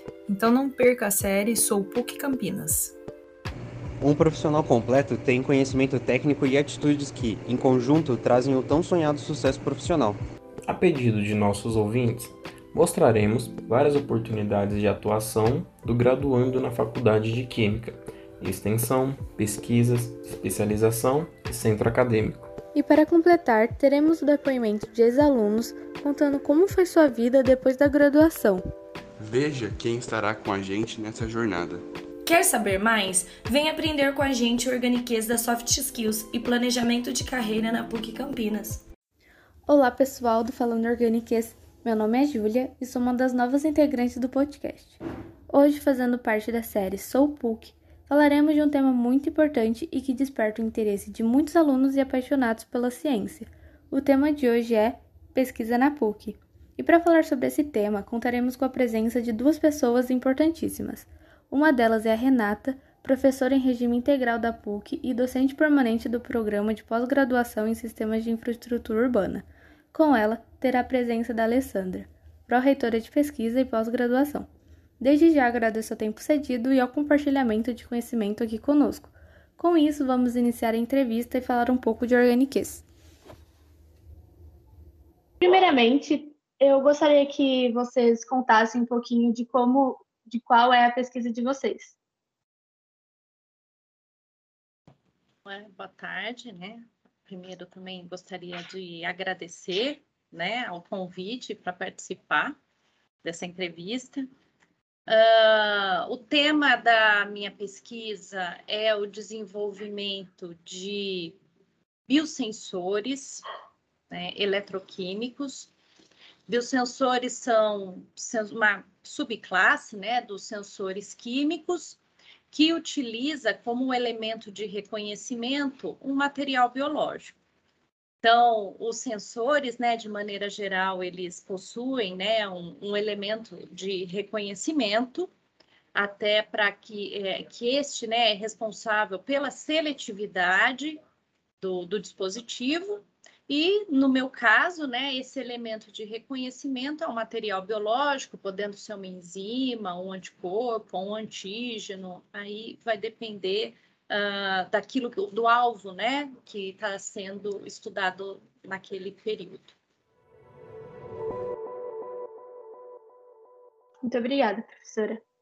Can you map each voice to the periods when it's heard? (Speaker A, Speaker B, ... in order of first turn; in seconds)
Speaker A: 0.3-3.0
Speaker B: 4.0-10.2
Speaker C: 10.7-22.5
Speaker D: 22.8-28.6, 39.7-45.0, 45.5-74.5, 75.0-82.8
Speaker E: 29.2-31.8
Speaker F: 32.2-38.8
Speaker G: 85.4-92.0, 164.0-165.2
Speaker H: 95.5-102.6, 103.2-104.3, 105.1-111.4, 112.1-113.4, 114.1-115.7, 116.5-122.0, 122.5-127.4, 128.2-135.3, 135.9-141.0, 141.6-159.7